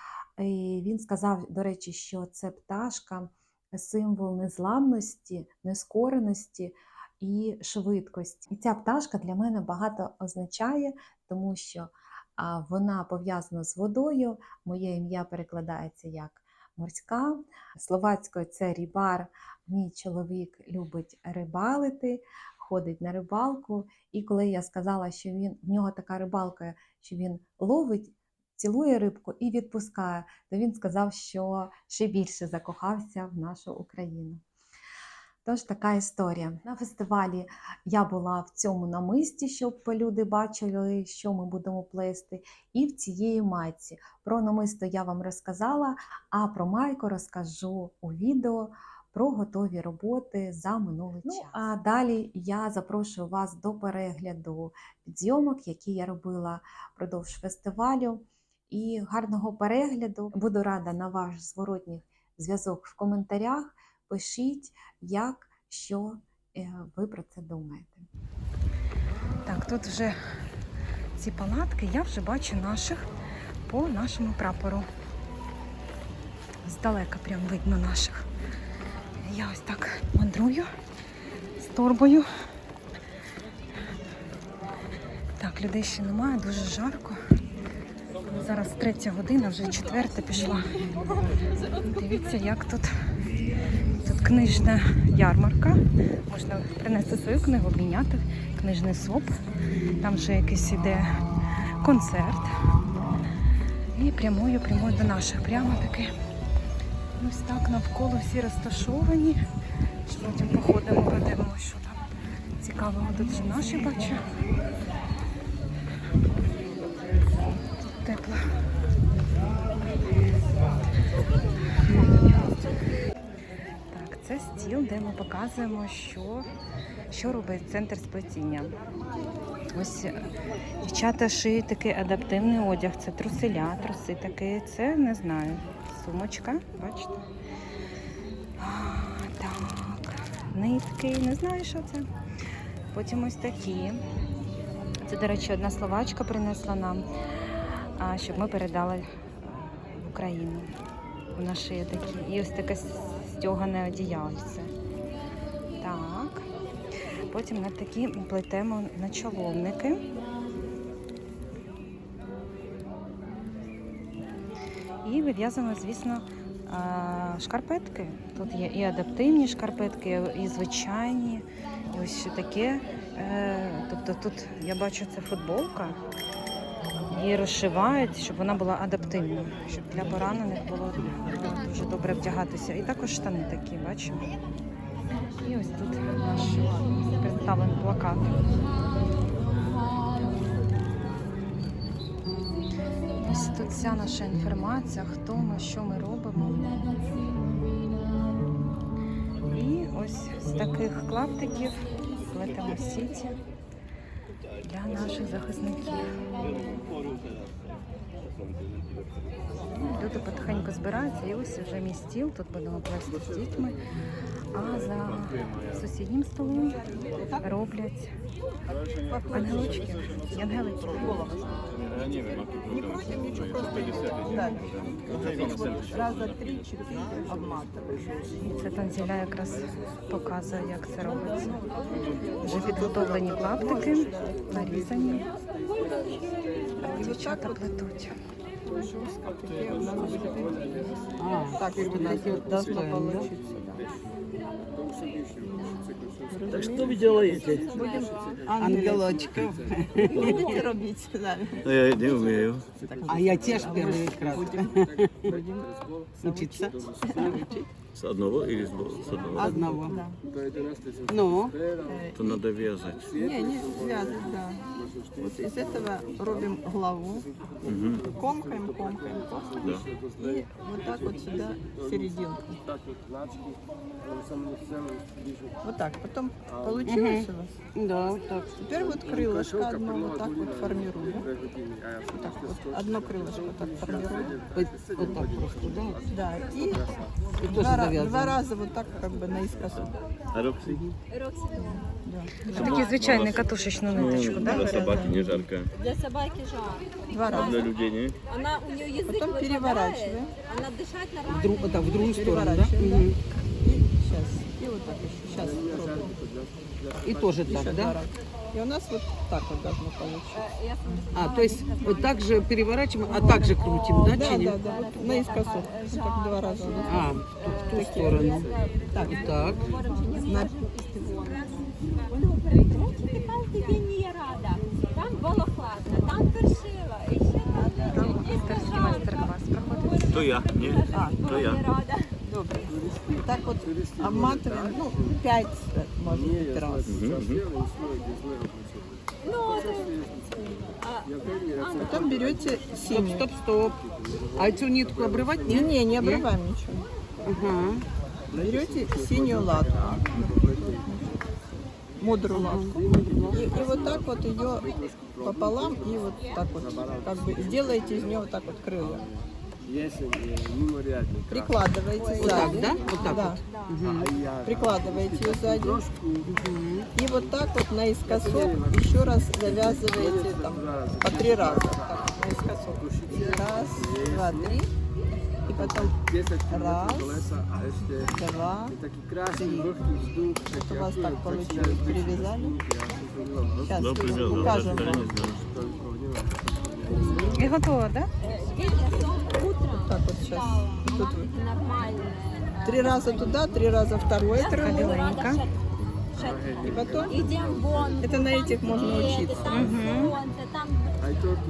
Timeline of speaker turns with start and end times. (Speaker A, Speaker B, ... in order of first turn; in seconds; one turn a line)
Speaker A: 0.4-34.4
Speaker A: 35.4-68.0
Speaker B: 51.3-51.5
Speaker B: 69.4-70.2
Speaker B: 71.2-73.1
Speaker B: 73.7-74.9
Speaker B: 76.6-78.3
Speaker B: 79.2-80.7
Speaker B: 81.6-82.3
Speaker B: 85.4-87.2
Speaker B: 88.3-90.7
Speaker B: 91.8-92.9
Speaker B: 94.0-99.4
Speaker B: 100.0-101.2
Speaker B: 101.8-102.5
Speaker B: 103.9-106.1
Speaker B: 107.2-109.4
Speaker B: 110.1-112.0
Speaker B: 112.6-114.2
Speaker B: 117.9-118.4
Speaker B: 123.9-126.5
Speaker B: 127.1-128.7
Speaker B: 129.7-130.2
Speaker B: 130.8-137.2
Speaker B: 138.6-142.1
Speaker B: 142.9-144.0
Speaker B: 145.0-147.1
Speaker B: 147.9-150.7
Speaker B: 151.3-154.7
Speaker B: 155.8-156.5
Speaker B: 157.3-160.0
Speaker B: 165.0-176.0
Speaker B: 177.1-184.3
Speaker B: 185.4-188.4
Speaker B: 193.2-196.9
Speaker B: 199.5-203.4
Speaker B: 204.6-206.0
Speaker B: 209.7-213.8
Speaker B: 214.5-216.8
Speaker C: 217.1-217.6
Speaker B: 217.4-218.1
Speaker C: 219.1-220.1
Speaker B: 219.3-221.1
Speaker C: 220.8-221.6
Speaker D: 221.8-226.1
Speaker C: 222.7-228.2
Speaker B: 228.4-231.6
Speaker C: 232.4-234.7
Speaker B: 232.4-235.3
Speaker E: 235.8-236.2
Speaker C: 236.8-237.7
Speaker B: 236.8-238.1
Speaker C: 238.7-240.6
Speaker F: 241.2-243.3
Speaker C: 241.4-243.8
Speaker C: 246.3-251.7
Speaker D: 246.5-247.7
Speaker E: 247.0-248.4
Speaker F: 248.5-250.4
Speaker E: 250.2-250.7
Speaker D: 251.6-252.7
Speaker C: 252.9-255.4
Speaker F: 253.1-255.4
Speaker F: 256.2-257.4
Speaker C: 256.2-257.6
Speaker D: 257.9-259.5
Speaker C: 259.3-260.1
Speaker F: 259.4-260.0
Speaker F: 261.1-261.6
Speaker D: 262.1-263.1
Speaker C: 263.2-267.3
Speaker D: 267.6-268.1
Speaker C: 268.1-272.6
Speaker D: 269.6-269.9
Speaker C: 275.6-277.6
Speaker F: 276.9-278.5
Speaker C: 278.5-281.3
Speaker C: 282.1-284.5
Speaker F: 284.5-286.0
Speaker C: 286.1-286.9
Speaker F: 287.4-288.4
Speaker C: 287.4-289.9
Speaker D: 289.8-290.8
Speaker E: 291.1-291.9
Speaker C: 291.6-292.9
Speaker B: 292.5-295.0
Speaker D: 292.5-295.7
Speaker E: 292.6-292.8
Speaker C: 294.0-295.4
Speaker E: 295.7-297.8
Speaker C: 297.1-297.7
Speaker D: 297.3-298.1
Speaker E: 298.3-302.2
Speaker C: 299.0-300.3
Speaker F: 301.3-303.2
Speaker C: 302.0-303.1
Speaker C: 303.6-306.1
Speaker F: 307.0-308.0
Speaker C: 307.4-310.4
Speaker E: 310.3-332.1
Speaker F: 311.1-314.6
Speaker C: 313.0-313.5
Speaker C: 314.0-317.0
Speaker F: 316.9-318.5
Speaker C: 317.7-319.4
Speaker F: 319.1-319.6
Speaker C: 320.2-320.5
Speaker C: 327.5-328.2
Speaker B: 327.9-330.2
Speaker D: 330.1-331.6
Speaker C: 330.9-331.4
Speaker C: 332.2-336.9
Speaker D: 336.8-337.5
Speaker E: 339.2-342.2
Speaker C: 341.7-343.3
Speaker F: 342.9-343.8
Speaker F: 344.4-346.3
Speaker C: 345.4-346.9
Speaker F: 347.2-347.8
Speaker C: 348.3-351.1
Speaker C: 352.0-359.0
Speaker F: 352.3-352.8
Speaker E: 353.3-354.9
Speaker E: 355.7-356.4
Speaker C: 361.3-363.4
Speaker E: 361.9-363.8
Speaker F: 362.2-364.1
Speaker C: 364.4-365.8
Speaker F: 366.3-366.9
Speaker C: 366.9-374.7
Speaker C: 375.5-375.9
Speaker C: 376.5-378.8
Speaker C: 379.3-379.7
Speaker C: 380.5-382.6
Speaker C: 383.6-385.1
Speaker D: 383.7-385.4
Speaker C: 386.9-387.4
Speaker B: 387.4-388.1
Speaker E: 388.2-395.6
Speaker C: 389.7-391.3
Speaker C: 392.6-395.0
Speaker B: 394.5-395.4
Speaker E: 396.1-401.1
Speaker C: 396.6-397.3
Speaker C: 398.0-399.7
Speaker B: 399.5-400.1